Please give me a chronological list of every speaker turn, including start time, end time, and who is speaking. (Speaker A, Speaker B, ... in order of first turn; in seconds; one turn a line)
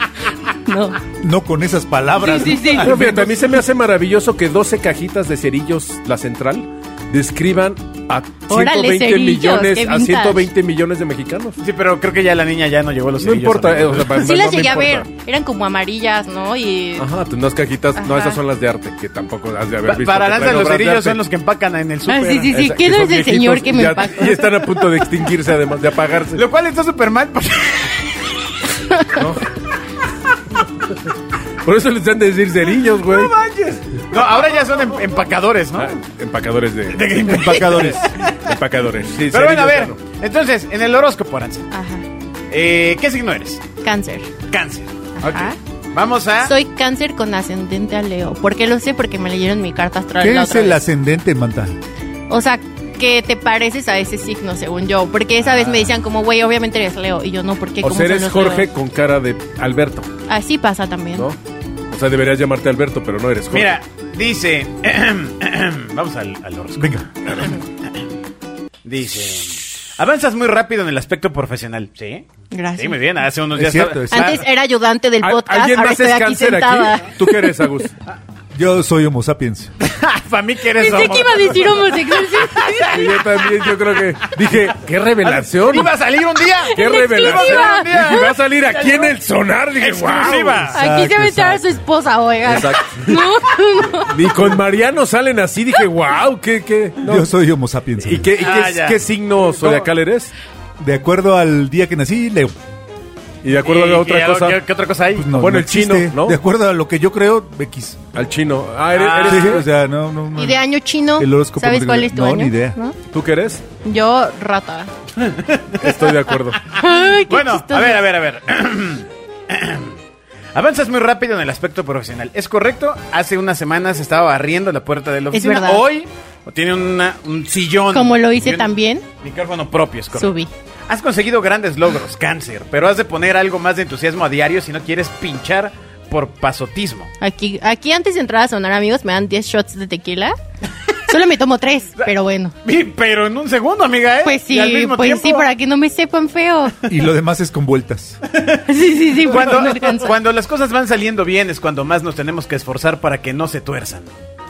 Speaker A: 0.7-1.0
Speaker B: 1.2-3.4
Speaker A: 2.2-3.0
Speaker C: 2.8-11.6
Speaker A: 8.5-10.5
Speaker D: 11.6-14.1
Speaker C: 13.2-15.1
Speaker A: 14.1-17.1
Speaker C: 17.0-21.2
Speaker A: 18.0-18.4
Speaker D: 19.9-22.5
Speaker A: 22.1-24.5
Speaker C: 22.5-26.4
Speaker D: 26.4-28.1
Speaker C: 29.1-29.5
Speaker C: 31.6-33.3
Speaker D: 33.0-36.0
Speaker C: 35.8-37.2
Speaker D: 36.9-38.4
Speaker B: 37.2-38.1
Speaker C: 38.3-40.0
Speaker D: 39.3-41.7
Speaker A: 41.7-42.0
Speaker D: 42.5-43.6
Speaker A: 43.8-44.3
Speaker D: 44.5-46.5
Speaker A: 45.2-45.6
Speaker A: 46.4-50.8
Speaker B: 50.2-51.8
Speaker A: 52.3-58.7
Speaker C: 57.8-60.1
Speaker A: 60.3-61.3
Speaker C: 61.9-63.8
Speaker D: 63.5-67.6
Speaker B: 66.8-67.1
Speaker D: 68.8-72.3
Speaker A: 72.5-73.0
Speaker D: 72.8-74.4
Speaker B: 73.5-74.4
Speaker A: 74.1-77.4
Speaker C: 75.2-77.9
Speaker B: 78.5-79.7
Speaker D: 79.8-83.2
Speaker A: 80.8-83.0
Speaker C: 82.9-85.9
Speaker D: 85.2-89.1
Speaker A: 86.7-88.3
Speaker C: 86.7-90.7
Speaker D: 89.8-90.8
Speaker B: 90.7-91.8
Speaker A: 90.7-94.3
Speaker C: 92.5-93.3
Speaker C: 93.9-97.3
Speaker B: 97.0-98.3
Speaker C: 98.0-100.3
Speaker D: 98.3-99.9
Speaker B: 100.8-102.5
Speaker C: 103.4-104.6
Speaker D: 103.6-105.3
Speaker B: 105.1-108.0
Speaker C: 105.3-106.4
Speaker C: 108.1-109.7
Speaker D: 108.9-109.7
Speaker B: 109.2-110.7
Speaker A: 110.3-113.0
Speaker B: 111.2-112.8
Speaker C: 113.1-113.6
Speaker A: 113.8-114.9
Speaker D: 115.2-116.2
Speaker C: 115.8-116.6
Speaker A: 116.8-118.0
Speaker D: 116.8-120.0
Speaker D: 120.5-130.3
Speaker A: 125.3-125.9
Speaker A: 127.9-129.1
Speaker A: 130.2-130.5
Speaker D: 130.9-137.1
Speaker A: 137.2-140.4
Speaker A: 141.1-142.6
Speaker D: 142.6-145.5
Speaker A: 144.2-146.8
Speaker B: 146.9-148.2
Speaker D: 148.3-148.6
Speaker A: 148.6-150.1
Speaker D: 149.2-154.1